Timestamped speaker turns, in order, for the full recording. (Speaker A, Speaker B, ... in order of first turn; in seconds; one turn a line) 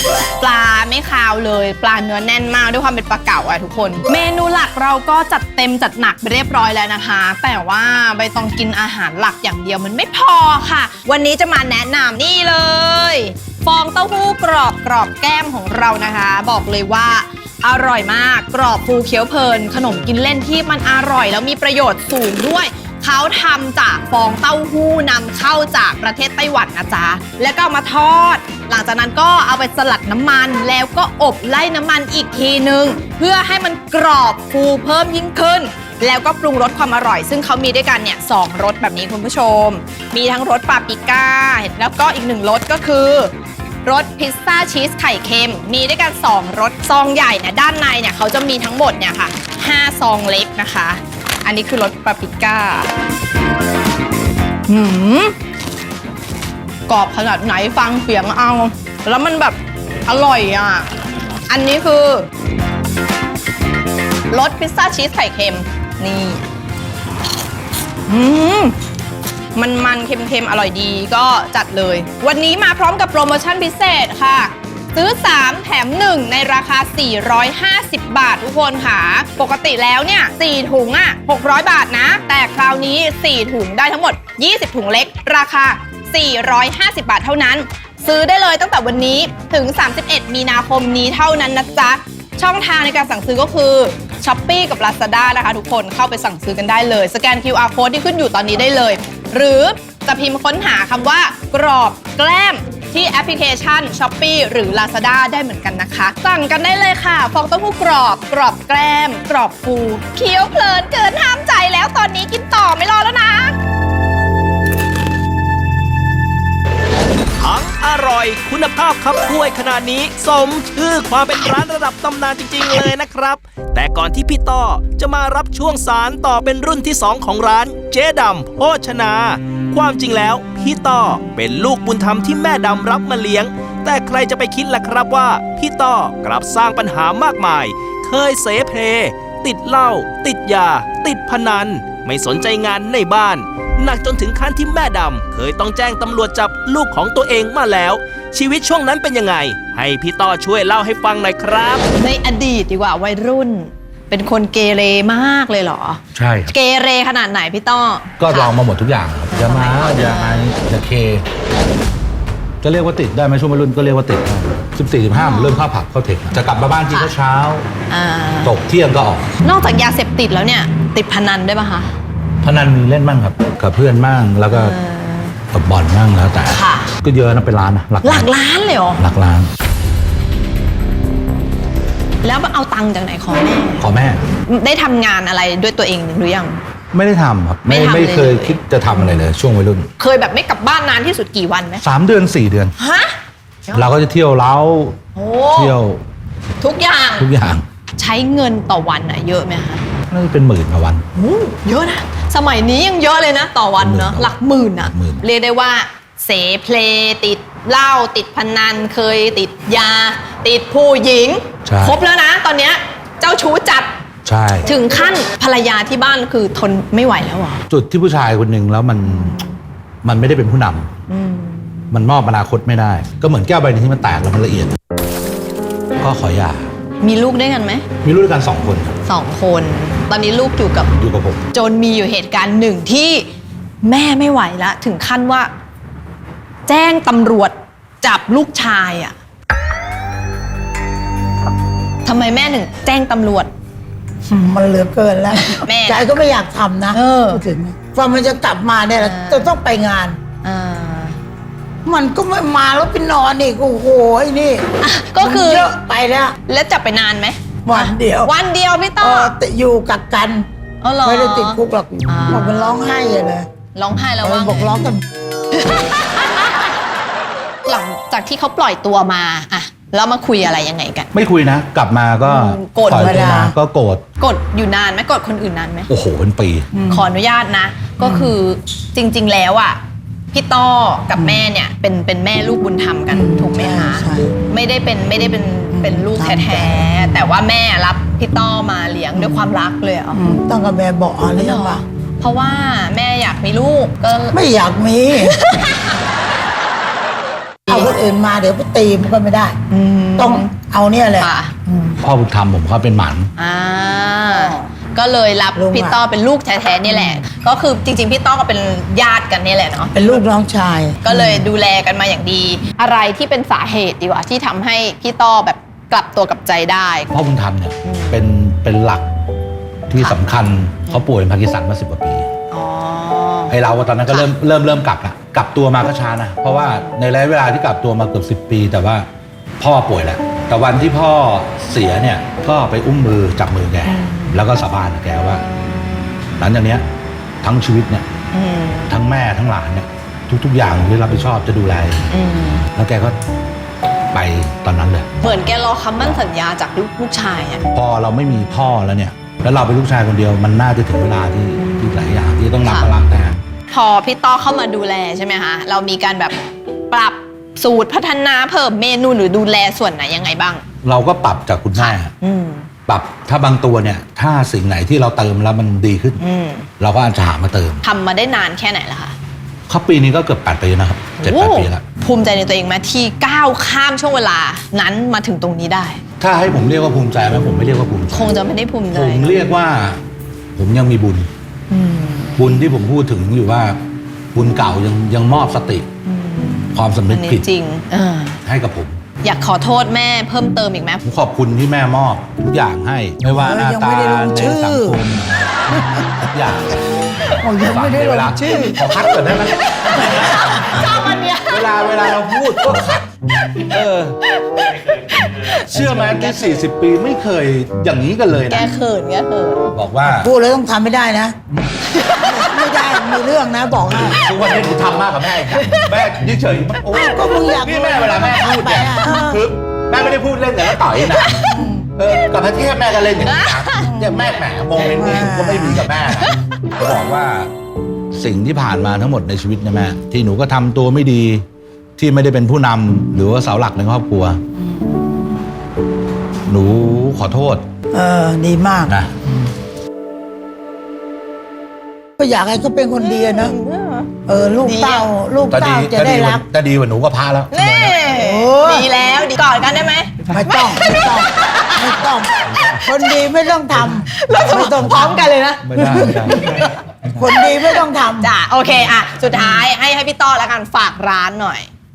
Speaker A: 0.4-43.3
Speaker A: 43.8-52.9
Speaker A: 54.7-55.3
Speaker A: 56.9-60.9
Speaker A: 61.5-62.3
Speaker A: 64.3-66.4
Speaker A: 68.1-68.8
Speaker A: 69.5-113.5
Speaker B: 117.4-151.8
Speaker A: 151.9-158.6
Speaker C: 156.1-156.5
Speaker C: 158.2-161.2
Speaker A: 159.3-160.5
Speaker C: 162.6-167.7
Speaker A: 165.1-165.7
Speaker A: 166.9-167.1
Speaker A: 167.9-168.6
Speaker C: 168.4-169.4
Speaker A: 169.4-171.9
Speaker C: 172.4-174.7
Speaker A: 174.5-175.4
Speaker C: 175.5-178.3
Speaker A: 176.5-176.9
Speaker A: 178.0-179.0
Speaker C: 179.0-179.5
Speaker A: 182.2-183.9
Speaker C: 183.8-184.2
Speaker A: 184.4-186.6
Speaker C: 186.9-189.9
Speaker A: 187.7-189.3
Speaker A: 190.0-191.8
Speaker C: 191.8-192.7
Speaker A: 192.8-193.1
Speaker A: 193.7-193.9
Speaker C: 193.7-195.0
Speaker A: 195.1-195.8
Speaker C: 195.5-196.0
Speaker A: 196.6-197.3
Speaker C: 197.2-197.6
Speaker A: 198.0-199.8
Speaker C: 200.1-201.0
Speaker A: 201.1-213.9
Speaker C: 203.8-205.2
Speaker C: 211.6-212.0
Speaker C: 214.2-214.7
Speaker A: 214.6-217.6
Speaker C: 217.7-219.4
Speaker A: 219.0-219.6
Speaker C: 220.0-220.9
Speaker A: 221.1-221.9
Speaker C: 221.9-224.8
Speaker C: 226.0-226.7
Speaker A: 227.0-227.8
Speaker C: 228.0-228.9
Speaker A: 229.1-230.9
Speaker C: 230.9-231.4
Speaker A: 231.5-233.3
Speaker A: 233.8-235.5
Speaker A: 236.7-239.2
Speaker A: 242.0-243.5
Speaker D: 244.3-250.2
Speaker A: 245.5-246.2
Speaker A: 246.9-247.4
Speaker A: 249.0-249.5
Speaker A: 250.4-251.2
Speaker D: 251.8-254.6
Speaker A: 254.8-255.7
Speaker D: 255.2-256.3
Speaker A: 256.4-259.4
Speaker D: 257.6-258.3
Speaker D: 259.0-260.4
Speaker A: 260.8-262.9
Speaker D: 261.0-263.5
Speaker A: 263.7-264.9
Speaker D: 264.2-265.0
Speaker A: 265.6-266.7
Speaker A: 267.6-271.1
Speaker C: 271.1-274.0
Speaker A: 272.2-273.4
Speaker D: 272.9-273.5
Speaker A: 274.2-275.9
Speaker C: 275.9-276.7
Speaker D: 276.7-277.1
Speaker A: 276.9-279.8
Speaker D: 278.0-278.3
Speaker A: 280.3-290.2
Speaker D: 281.1-281.4
Speaker D: 283.1-284.3
Speaker D: 285.7-286.9
Speaker D: 289.1-289.5
Speaker D: 290.1-291.8
Speaker A: 291.3-294.4
Speaker D: 294.3-295.4
Speaker A: 295.1-296.0
Speaker A: 297.7-297.9
Speaker D: 297.7-299.6
Speaker A: 299.7-300.5
Speaker D: 300.1-301.9
Speaker A: 301.2-301.5
Speaker C: 302.0-303.3
Speaker A: 303.4-310.2
Speaker D: 305.5-306.0
Speaker D: 306.9-307.2
Speaker D: 309.9-311.5
Speaker A: 311.0-317.1
Speaker C: 317.1-319.1
Speaker A: 317.8-318.2
Speaker C: 319.9-322.3
Speaker A: 319.9-320.2
Speaker A: 322.5-323.5
Speaker C: 323.5-329.1
Speaker C: 329.6-335.4
Speaker A: 333.8-334.4
Speaker C: 336.4-336.8
Speaker C: 337.4-338.1
Speaker A: 338.3-338.9
Speaker C: 338.9-342.1
Speaker A: 342.1-342.7
Speaker C: 342.7-343.2
Speaker C: 344.1-345.1
Speaker A: 345.2-347.7
Speaker C: 347.7-353.4
Speaker A: 352.6-352.9
Speaker A: 353.7-360.6
Speaker C: 360.8-362.1
Speaker A: 361.7-362.7
Speaker C: 362.9-366.2
Speaker A: 366.2-366.7
Speaker C: 366.8-367.8
Speaker A: 367.8-369.1
Speaker C: 369.7-371.8
Speaker A: 371.2-376.0
Speaker C: 376.2-378.4
Speaker A: 378.1-379.4
Speaker C: 378.9-380.0
Speaker C: 380.5-381.3
Speaker A: 381.7-382.6
Speaker C: 382.4-383.8
Speaker C: 384.3-385.9
Speaker A: 386.0-388.4
Speaker C: 386.7-387.5
Speaker C: 388.4-389.0
Speaker A: 389.2-391.0
Speaker C: 391.0-396.7
Speaker D: 393.3-395.0
Speaker C: 397.2-400.8
Speaker D: 397.4-398.8
Speaker A: 400.9-401.4
Speaker C: 401.5-403.1
Speaker C: 403.6-404.2
Speaker A: 404.3-406.6
Speaker C: 405.5-408.7
Speaker A: 408.5-409.7
Speaker C: 409.7-410.3
Speaker D: 410.2-411.4
Speaker C: 411.5-411.8
Speaker A: 411.9-413.2
Speaker D: 412.2-414.1
Speaker C: 413.9-427.5
Speaker A: 415.5-416.0
Speaker D: 416.9-419.4
Speaker A: 420.9-422.3
Speaker D: 421.5-421.8
Speaker A: 423.1-424.2
Speaker D: 424.9-425.8
Speaker C: 428.1-431.4
Speaker C: 432.0-434.4
Speaker C: 436.5-437.6
Speaker D: 437.9-438.9
Speaker C: 438.9-439.1
Speaker D: 442.2-443.5
Speaker A: 443.0-444.1
Speaker D: 444.3-446.4
Speaker A: 444.6-445.1
Speaker C: 445.5-448.0
Speaker A: 447.5-452.9
Speaker D: 448.1-448.9
Speaker C: 450.2-450.6
Speaker D: 450.3-452.3
Speaker C: 452.4-452.8
Speaker D: 452.8-456.4
Speaker C: 453.7-457.2
Speaker A: 454.1-456.8
Speaker D: 457.2-458.3
Speaker A: 457.3-461.7